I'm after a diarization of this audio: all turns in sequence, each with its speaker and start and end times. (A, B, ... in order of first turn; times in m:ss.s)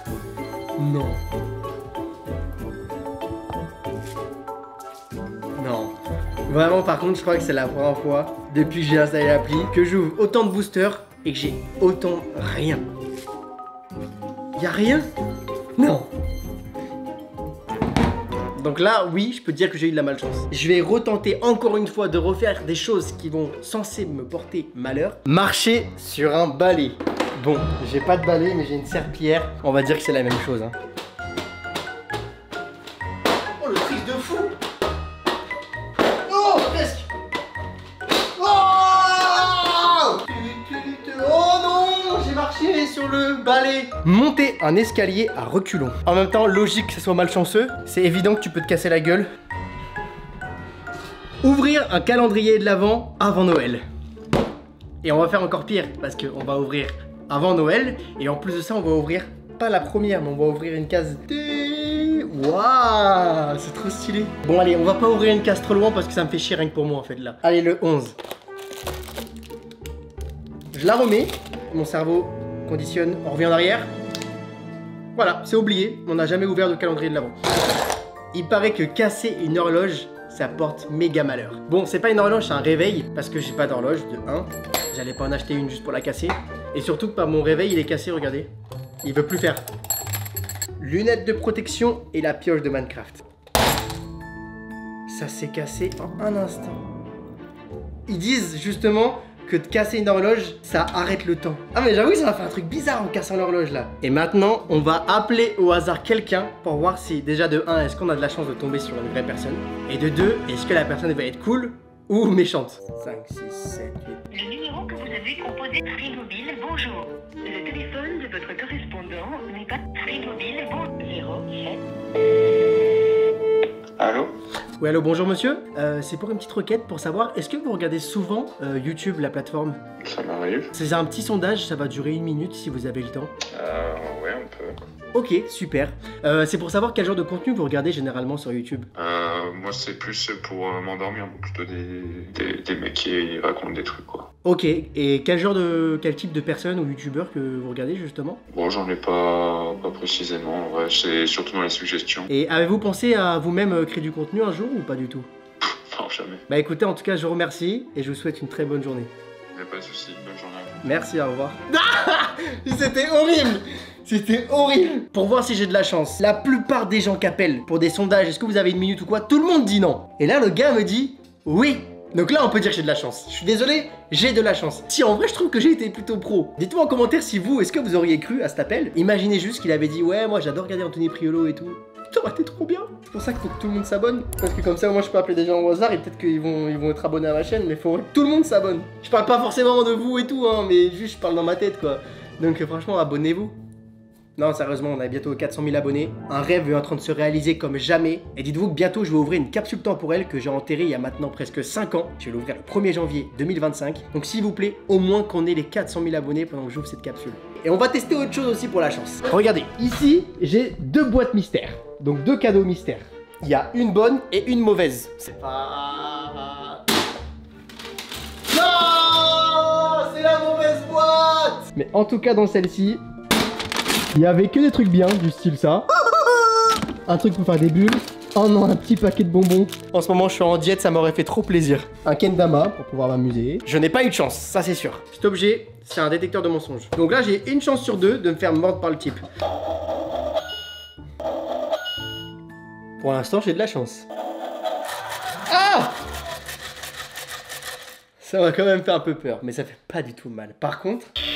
0:00.8-0:01.2 A
0:05.6-0:05.9 A
0:06.5-0:12.8 A
0:14.6-0:15.1 A
0:15.8-0:16.1 A
0:18.6-0:30.8 A
0:33.6-0:34.5 A
0:36.2-0:37.1 A
0:38.4-0:49.3 A
0:51.4-0:53.8 A
0:55.0-1:08.2 A
1:10.7-1:13.9 A
1:15.2-1:17.4 A
1:18.3-1:28.5 A
1:29.0-1:29.6 A
1:30.8-1:33.2 A
1:35.1-1:36.9 A
1:38.1-1:54.2 A
1:54.3-2:01.8 B
2:04.0-2:04.3 C
2:04.8-2:09.8 A
2:10.0-2:10.7 C
2:10.7-2:13.3 A
2:13.5-2:14.8 C
2:15.1-2:18.9 A
2:19.0-2:24.3 C
2:24.4-2:28.4 A
2:28.5-2:32.3 C
2:32.3-2:35.3 A
2:35.8-2:36.4 C
2:36.5-2:39.1 A
2:39.5-2:40.8 C
2:40.8-3:13.6 A
3:14.4-3:36.8 A
3:38.5-3:43.0 A
3:44.1-3:46.0 A
3:47.0-3:59.2 A
4:03.0-4:04.0 A
4:05.5-4:06.0 A
4:08.2-4:11.1 A